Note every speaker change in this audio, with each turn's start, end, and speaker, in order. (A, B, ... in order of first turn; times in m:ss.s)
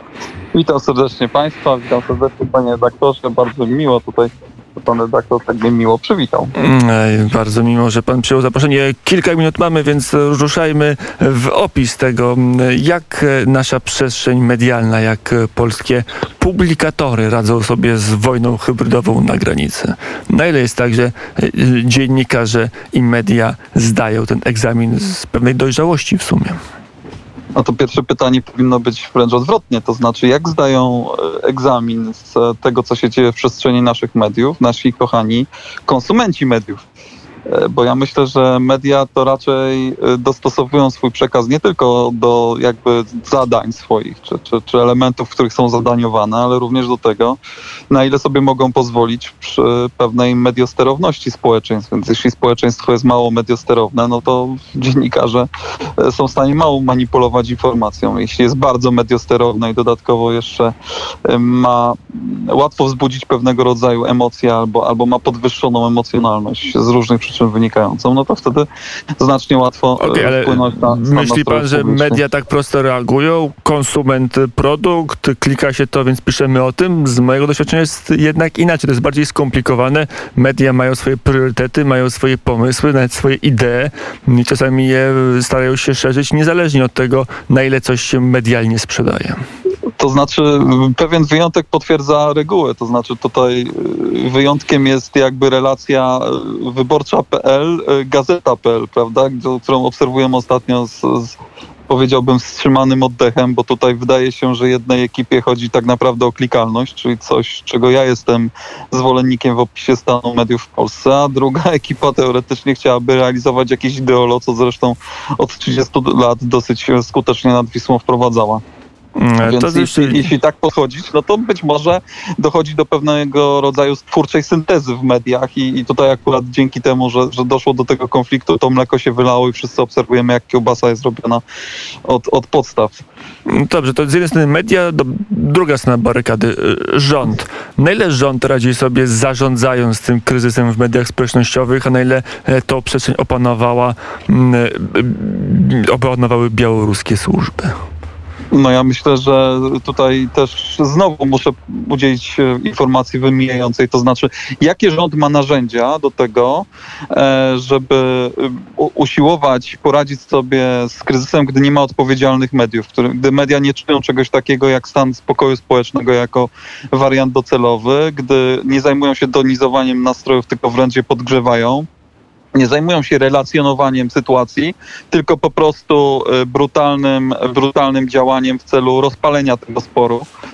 0:00.5-0:06.5 A
0:06.6-0:26.6 B
0:27.6-0:36.8 A
0:37.5-0:47.4 A
0:47.9-1:00.7 A
1:01.3-1:08.7 A
1:09.2-1:12.2 A
1:10.0-1:29.4 B
1:30.0-1:41.4 A
1:41.9-1:58.6 A
1:59.2-2:00.3 B
1:59.4-2:11.4 A
2:12.0-2:13.0 A
2:13.5-2:27.7 B
2:28.5-2:51.9 A
2:52.6-3:00.2 A